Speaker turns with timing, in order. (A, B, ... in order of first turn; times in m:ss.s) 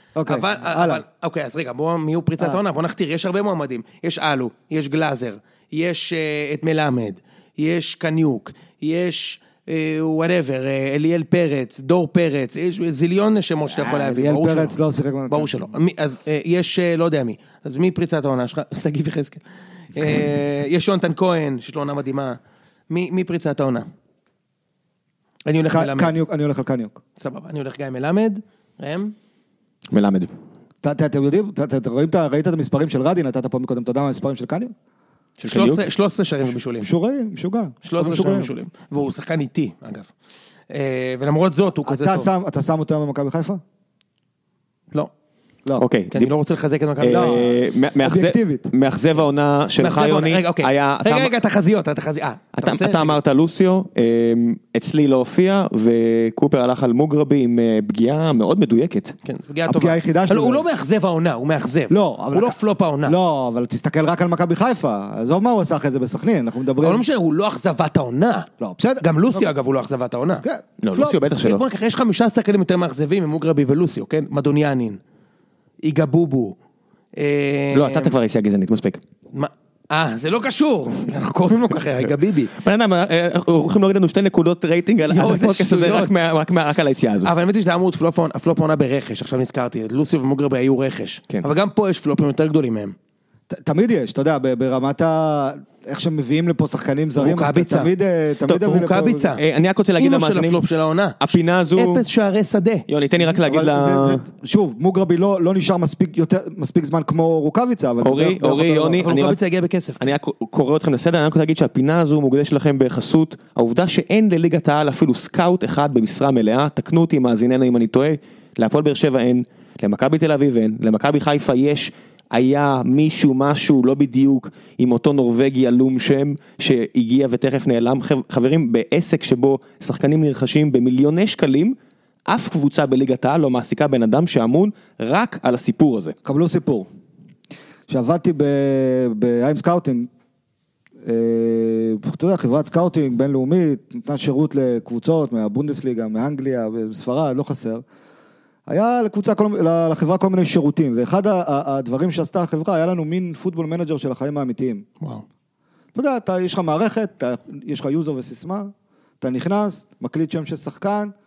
0:00.2-0:01.0 A
0:00.3-0:14.8 B
0:13.7-0:15.5 A
0:15.3-0:19.4 B
0:19.9-0:22.4 B
0:22.9-0:23.9 B
0:25.5-0:26.2 B
0:25.7-0:27.0 A
0:27.2-0:29.1 B
0:29.9-0:30.3 C
0:30.8-0:34.7 A
0:35.4-0:35.8 C
0:35.5-0:36.9 B
0:36.8-0:38.5 A
0:37.8-0:40.1 B
0:40.7-0:42.3 B
0:41.8-0:43.6 A
0:45.8-0:46.3 C
0:46.1-0:47.6 B
0:47.0-0:51.3 C
0:47.1-0:48.7 A
0:49.8-0:53.2 B
0:52.6-0:59.1 C
0:59.2-1:03.2 B
0:59.6-1:00.6 A
1:01.9-1:07.0 A
1:06.8-1:08.5 B
1:08.6-1:09.5 A
1:09.0-1:10.4 B
1:10.4-1:11.2 A
1:10.8-1:11.6 C
1:11.4-1:15.0 B
1:15.8-1:16.6 B
1:17.2-1:18.1 B
1:17.7-1:19.0 C
1:19.3-1:22.5 B
1:22.6-1:27.3 C
1:25.1-1:26.2 B
1:27.2-1:33.0 B
1:33.5-1:39.4 A
1:37.2-1:37.9 B
1:38.5-1:39.4 B
1:39.4-1:40.6 C
1:40.0-1:42.9 B
1:41.2-1:42.0 C
1:42.9-1:44.2 C
1:43.4-1:49.0 A
1:48.0-1:49.4 C
1:48.4-1:50.0 B
1:50.0-2:11.8 C
2:12.3-2:16.1 C
2:16.2-2:16.9 A
2:17.9-2:20.1 A
2:21.0-2:27.8 A
2:28.7-2:34.8 A
2:36.0-2:41.1 A